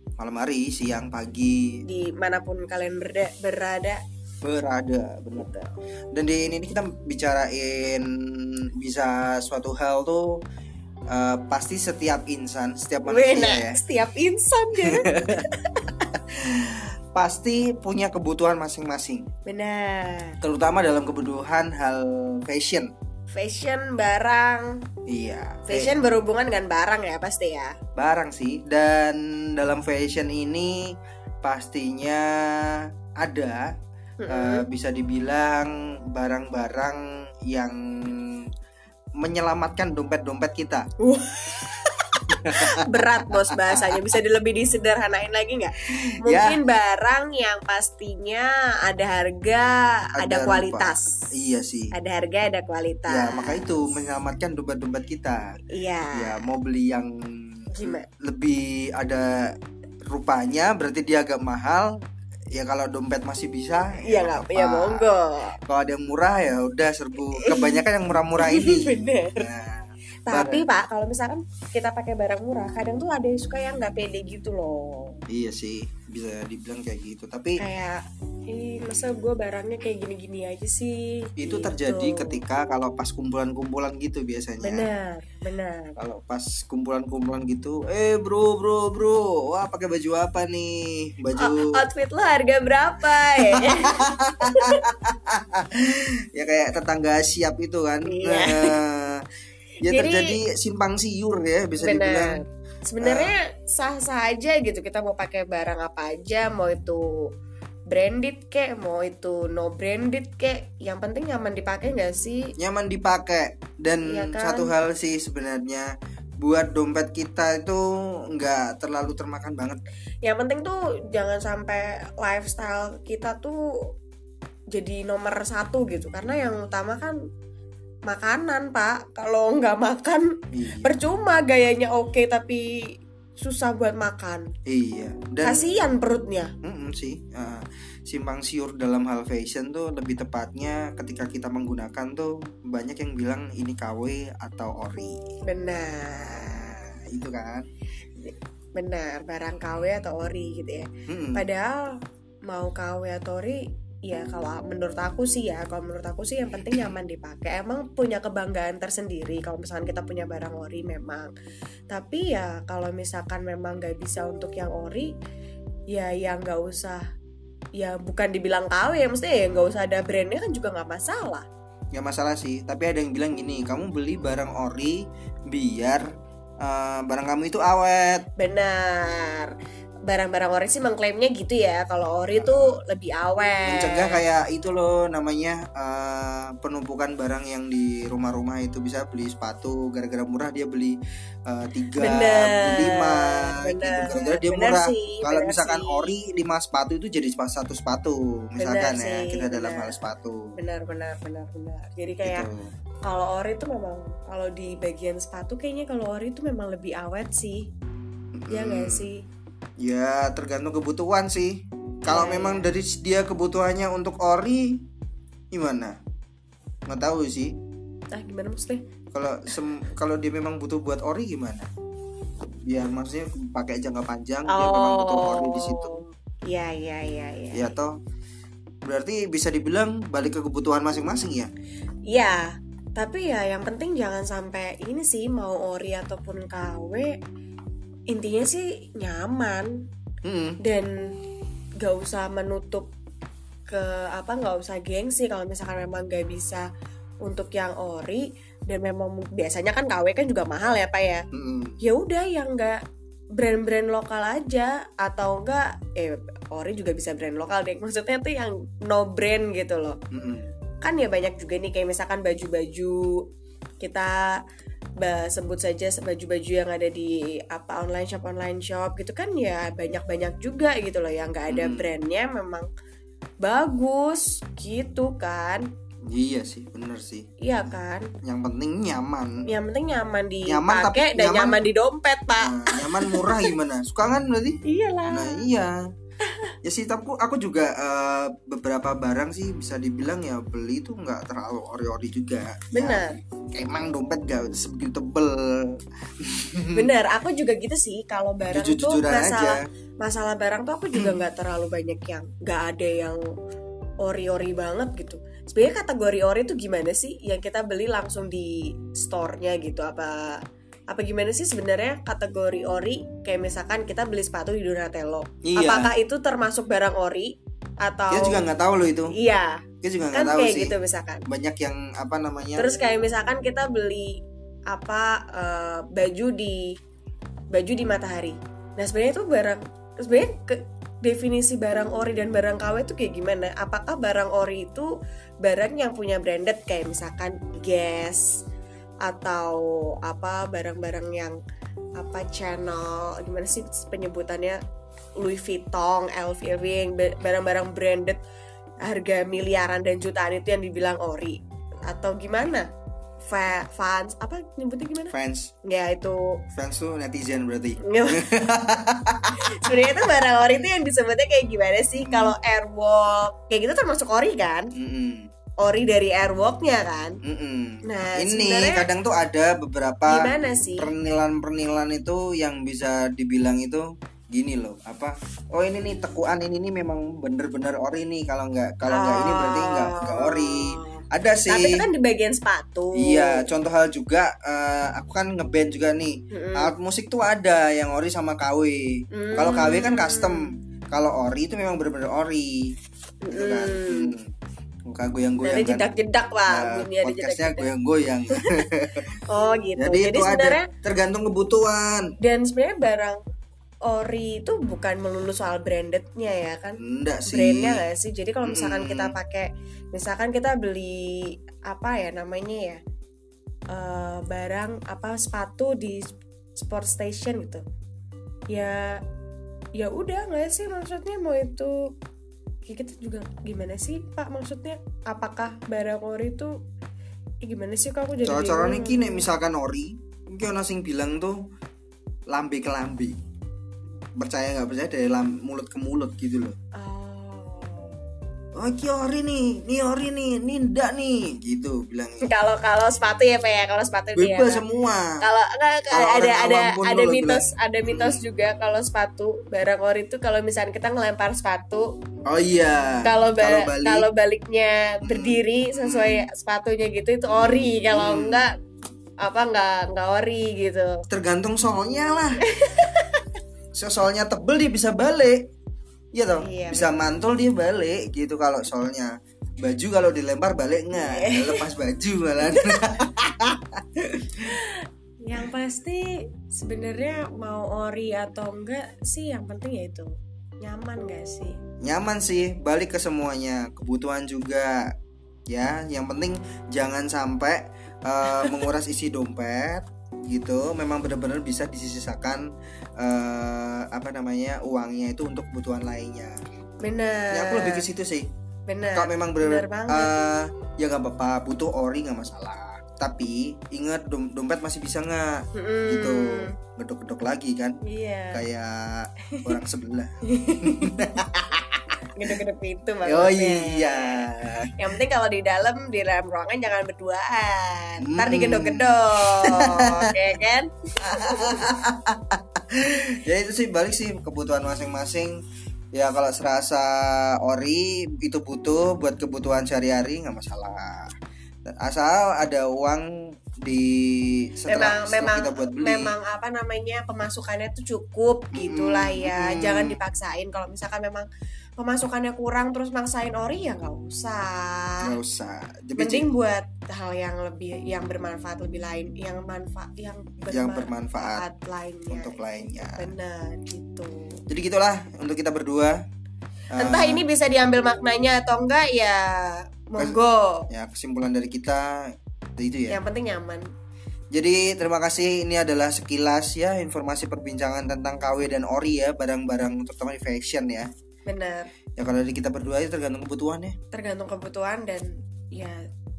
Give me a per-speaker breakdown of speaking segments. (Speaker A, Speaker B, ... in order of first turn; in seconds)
Speaker A: 0.2-1.8, 4.4-10.4, 11.1-13.8, 14.8-15.4, 16.3-19.3, 20.4-22.9, 25.1-25.9, 27.9-33.7, 34.3-38.5, 39.2-40.9, 42.3-44.0, 45.8-46.6, 50.1-51.9, 53.1-55.6, 56.1-59.5, 60.0-62.0, 62.5-65.1, 65.7-70.7, 75.3-77.6, 81.4-84.9, 86.0-91.8, 93.3-99.2, 99.8-102.4, 103.0-103.3, 112.6-119.8, 130.5-131.0, 134.7-135.7, 136.6-145.2, 146.2-147.7, 151.1-151.4, 171.9-176.1, 176.6-178.3, 182.3-182.7, 183.7-200.5, 202.2-202.7, 208.3-209.1, 209.8-214.8, 215.5-215.9, 216.9-217.6, 219.1-221.7, 222.7-225.9, 227.5-227.9, 228.8-231.5, 240.2-240.6, 251.3-251.8, 260.1-260.5, 271.5-271.9, 276.1-277.3, 278.2-279.3, 280.4-281.6, 282.4-285.8, 286.6-296.9, 298.5-299.6, 315.4-315.9, 318.1-319.1, 319.8-320.8, 321.3-322.7, 355.1-355.5, 356.6-359.9, 362.0-362.3, 364.7-365.3, 367.2-381.9, 382.9-392.7, 393.3-394.3, 394.9-395.9, 396.5-399.1, 399.8-402.1, 406.8-407.9, 408.4-409.1, 428.2-431.5, 432.3-433.2, 434.2-436.5, 438.5-442.3, 444.1-445.2, 445.9-448.2, 452.2-454.1, 455.0-456.2, 457.3-458.4, 461.1-462.4, 463.7-465.5, 466.1-474.6, 481.8-484.9, 485.5-496.4, 497.3-498.3, 498.9-507.8, 508.3-512.3, 513.0-514.9, 518.0-520.0, 521.0-525.4, 525.9-531.1, 531.7-533.0, 533.6-536.1, 538.5-540.0, 545.0-546.3, 550.5-551.4, 552.1-553.1, 554.5-556.0, 556.7-557.2, 560.0-563.0, 564.3-570.9, 572.0-573.8
Speaker B: 1.9-4.0, 13.1-15.9, 19.4-20.4, 23.3-24.8, 25.7-27.8, 34.2-34.6, 41.0-51.3, 51.9-53.7, 55.7-56.4, 57.7-58.1, 64.0-65.6, 67.2-67.8, 68.4-69.5, 70.3-75.2, 77.6-82.4, 84.6-86.0, 91.4-94.8, 98.0-98.8, 99.8-100.4, 101.8-107.3, 107.9-112.5, 114.0-114.7, 120.2-123.9, 124.7-127.1, 128.1-134.5, 135.4-136.5, 145.4-146.8, 148.2-151.9, 152.5-161.3, 161.9-165.1, 165.9-167.0, 167.8-171.4, 178.4-179.5, 180.1-184.2, 192.0-196.1, 198.6-200.0, 200.6-202.5, 203.1-207.7, 208.5-209.2, 212.1-212.7, 218.1-218.8, 224.5-227.7, 232.1-237.2, 238.1-239.8, 240.6-241.1, 241.8-242.9, 243.7-246.6, 247.2-251.2, 251.8-252.8, 253.4-260.0, 260.8-263.2, 263.8-264.4, 265.0-272.7, 273.4-275.7, 277.4-278.1, 279.4-283.5, 284.6-285.4, 286.2-286.5, 292.7-293.2, 296.7-303.2, 304.0-318.4, 319.1-321.2, 322.6-326.8, 327.5-338.4, 339.0-341.4, 342.0-344.6, 345.2-348.2, 348.8-352.7, 353.2-356.4, 357.8-358.3, 359.4-364.7, 365.6-367.2, 367.8-368.9, 370.1-370.9, 378.9-383.5, 386.3-386.7, 389.1-390.5, 393.2-394.1, 395.4-397.7, 398.3-398.6, 399.3-400.7, 402.2-403.2, 403.9-412.8, 413.7-416.0, 416.6-417.6, 418.5-419.0, 419.8-421.9, 422.6-426.5, 427.4-429.3, 436.7-438.1, 442.2-444.6, 445.2-451.9, 453.0-458.5, 459.2-461.0, 462.4-463.2, 466.4-466.9, 470.9-471.7, 472.5-472.8, 474.4-481.6, 496.8-497.9, 498.7-500.1, 505.5-506.5, 507.8-508.4, 509.3-509.6, 510.2-511.0, 512.1-521.7, 534.7-541.3, 541.8-545.0, 546.0-554.4, 556.7-560.7, 562.9-563.6, 571.2-571.7, 573.9-575.8